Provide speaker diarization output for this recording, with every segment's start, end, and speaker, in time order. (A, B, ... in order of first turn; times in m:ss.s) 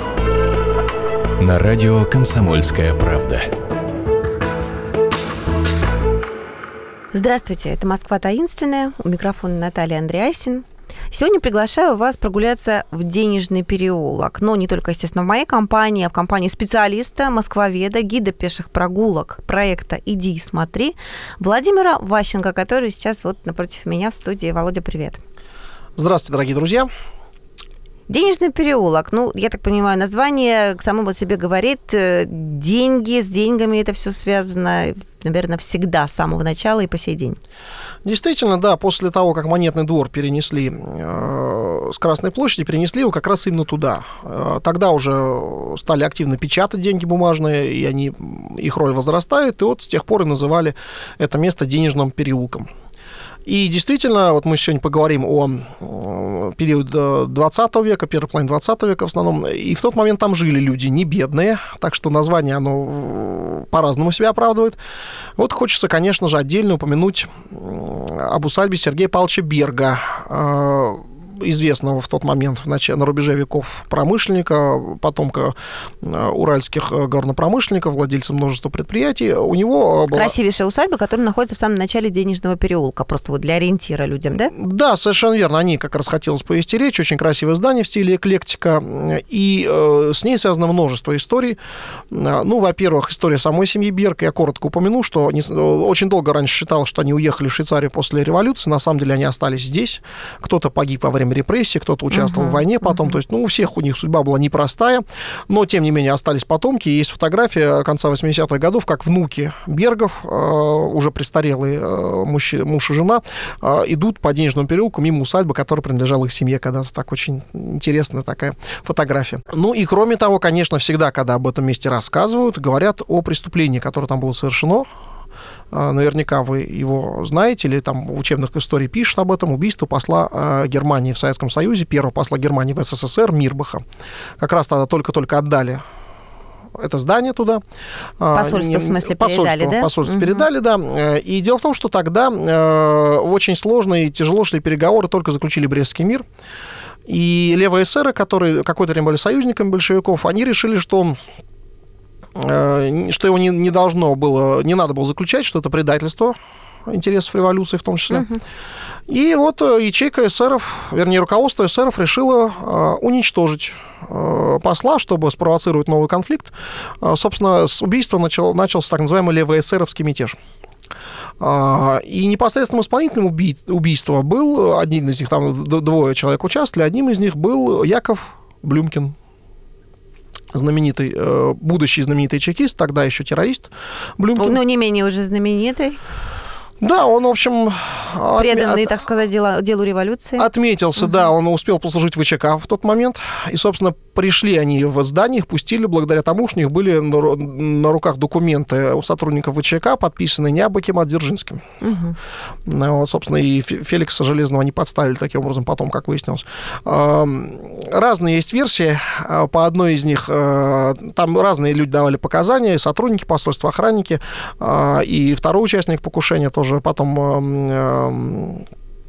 0:01.4-0:03.5 A
0:07.1-0:25.2 B
0:26.0-0:26.9 C
0:28.1-0:37.4 B
0:38.0-0:52.7 C
0:53.5-1:04.8 C
1:05.4-1:20.3 C
1:20.1-1:24.5 B
1:24.4-1:31.6 C
1:32.1-2:04.9 C
1:42.1-1:43.2 B
2:05.7-2:13.8 C
2:14.4-2:15.8 C
2:16.8-2:17.6 C
2:18.2-2:26.2 C
2:18.3-2:20.5 B
2:27.1-2:31.2 C
2:32.4-2:36.4 C
2:36.9-2:38.3 C
2:38.1-2:38.4 B
2:39.1-2:50.4 C
2:51.4-2:59.1 C
3:00.5-3:04.6 C
3:04.4-3:06.0 B
3:06.8-3:09.0 C
3:08.4-3:11.3 B
3:10.4-3:21.6 C
3:21.8-3:22.2 B
3:22.7-3:38.6 C